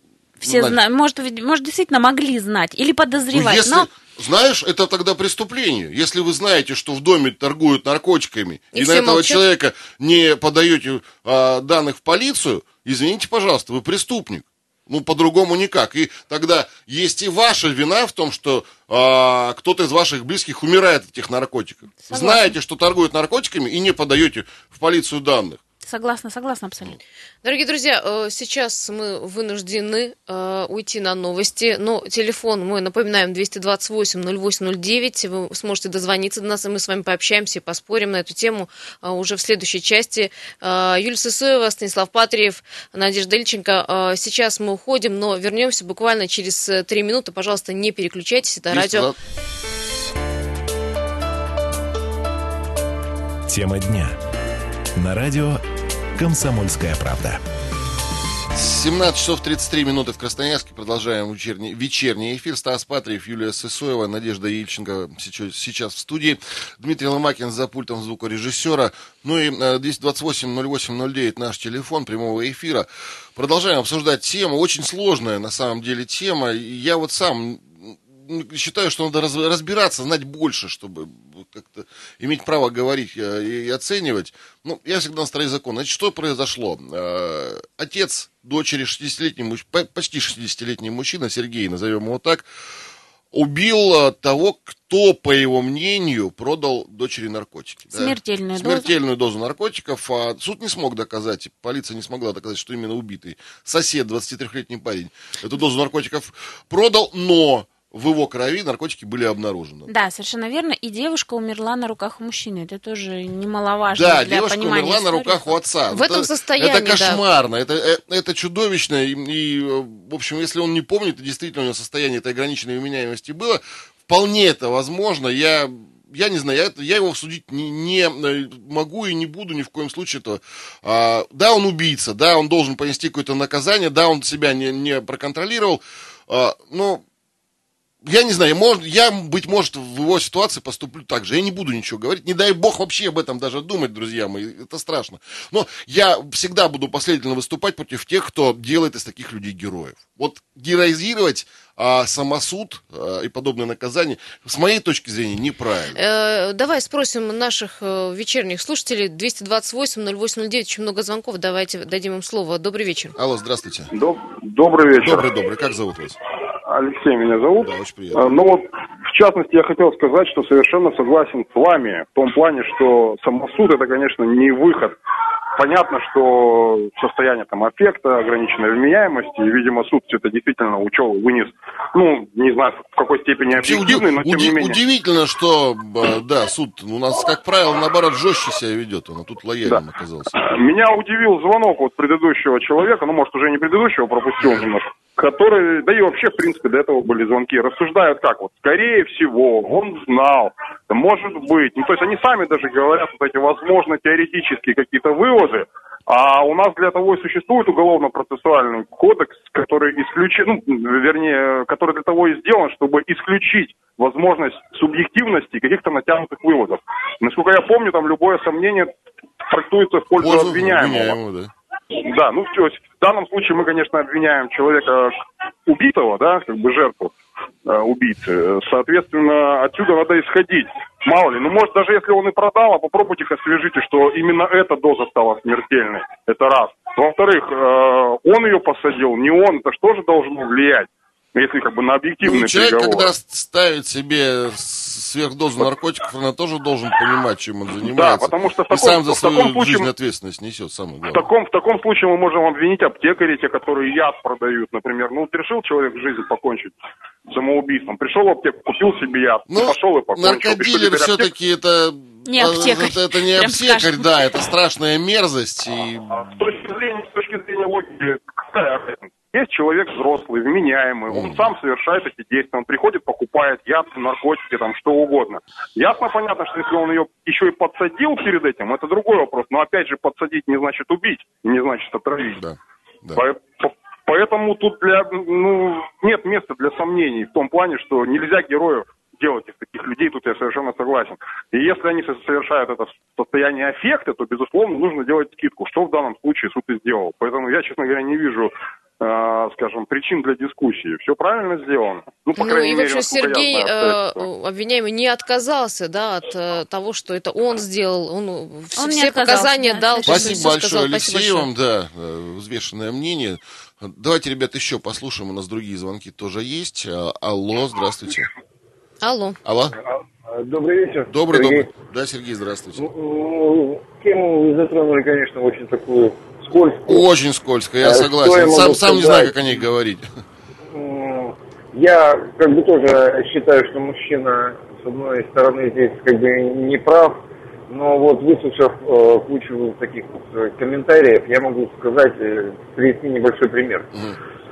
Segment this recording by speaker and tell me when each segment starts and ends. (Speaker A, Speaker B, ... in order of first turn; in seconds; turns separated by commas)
Speaker A: 0.4-3.9, Speaker B: 0.4-0.8, Speaker B: 3.3-25.6, Speaker C: 8.7-9.4, Speaker A: 22.0-22.5, Speaker A: 25.8-27.0, Speaker C: 27.4-49.1, Speaker B: 48.7-49.2, Speaker D: 53.5-54.2, Speaker D: 55.0-55.6, Speaker D: 56.2-57.4, Speaker B: 58.5-92.5, Speaker B: 93.3-109.9, Speaker A: 97.9-98.9, Speaker A: 109.9-115.5, Speaker B: 113.9-137.0, Speaker C: 115.9-117.2, Speaker B: 138.0-156.0, Speaker C: 155.9-163.2, Speaker B: 163.2-163.9, Speaker E: 163.9-165.3, Speaker B: 165.0-166.2, Speaker E: 166.7-175.0, Speaker B: 167.6-168.3, Speaker E: 175.6-184.8, Speaker B: 183.6-190.4, Speaker E: 189.7-218.9, Speaker E: 219.5-221.2, Speaker B: 220.2-221.5, Speaker E: 222.1-227.1, Speaker E: 227.7-243.1, Speaker B: 242.2-251.3, Speaker E: 247.8-249.9, Speaker E: 251.1-256.8, Speaker E: 257.3-261.3, Speaker B: 259.5-266.3, Speaker A: 262.3-264.1, Speaker E: 266.1-282.4, Speaker B: 271.1-271.4, Speaker B: 282.4-283.2, Speaker E: 283.1-304.3, Speaker C: 302.4-311.5, Speaker A: 308.8-310.5, Speaker B: 310.1-318.3, Speaker C: 319.0-319.4, Speaker B: 319.4-319.8, Speaker F: 319.8-321.7, Speaker B: 321.1-322.8, Speaker F: 322.8-327.0, Speaker B: 326.9-330.1, Speaker F: 327.8-329.4, Speaker F: 330.7-343.9